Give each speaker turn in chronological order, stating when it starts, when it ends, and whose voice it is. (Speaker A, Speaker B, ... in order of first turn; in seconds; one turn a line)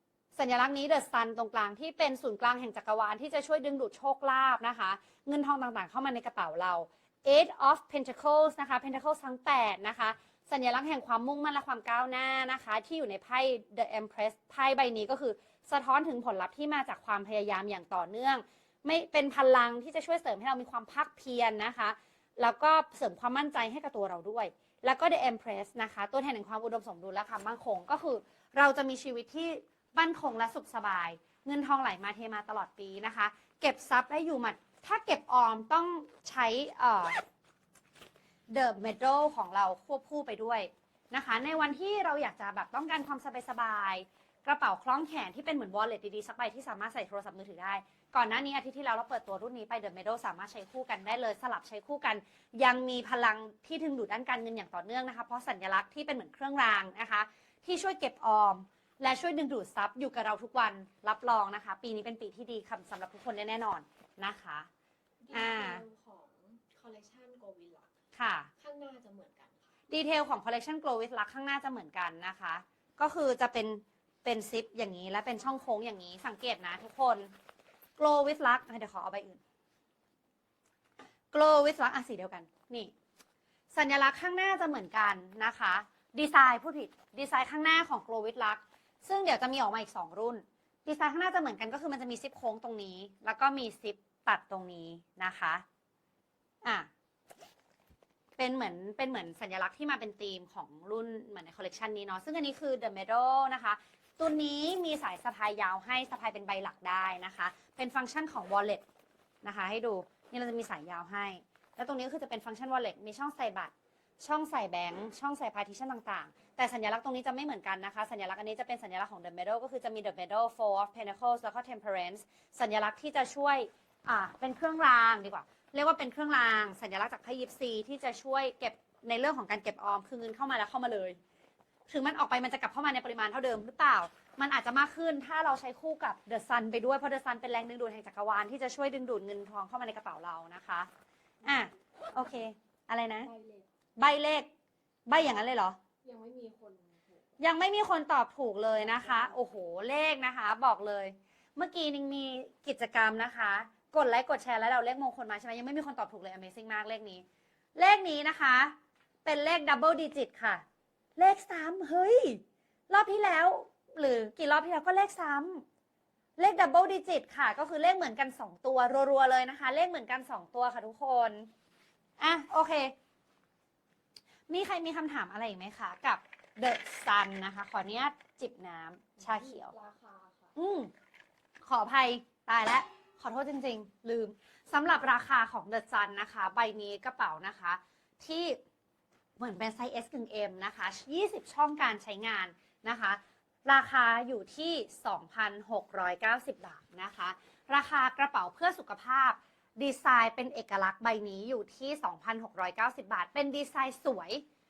Speaker A: 0.3-37.2
Speaker A: 38.5-64.7
Speaker B: 65.2-67.9
Speaker A: 65.3-65.8
Speaker A: 68.1-68.5
Speaker B: 68.6-69.8
Speaker A: 69.9-77.3
Speaker A: 78.0-79.4
Speaker A: 81.3-82.9
Speaker A: 83.7-95.6
Speaker A: 98.4-108.8
Speaker A: 109.4-131.2
Speaker A: 131.9-140.9
Speaker A: 141.4-143.3
Speaker B: 143.2-143.7
Speaker A: 144.0-144.5
Speaker A: 145.1-145.8
Speaker B: 146.0-147.2
Speaker A: 147.4-157.2
Speaker B: 148.8-149.3
Speaker A: 157.8-158.7
Speaker A: 159.2-160.6
Speaker A: 161.2-165.6
Speaker A: 166.4-171.5
Speaker A: 172.2-172.9
Speaker A: 174.5-179.7
Speaker B: 179.2-180.5
Speaker A: 180.5-180.9
Speaker A: 181.7-188.6
Speaker A: 189.4-204.4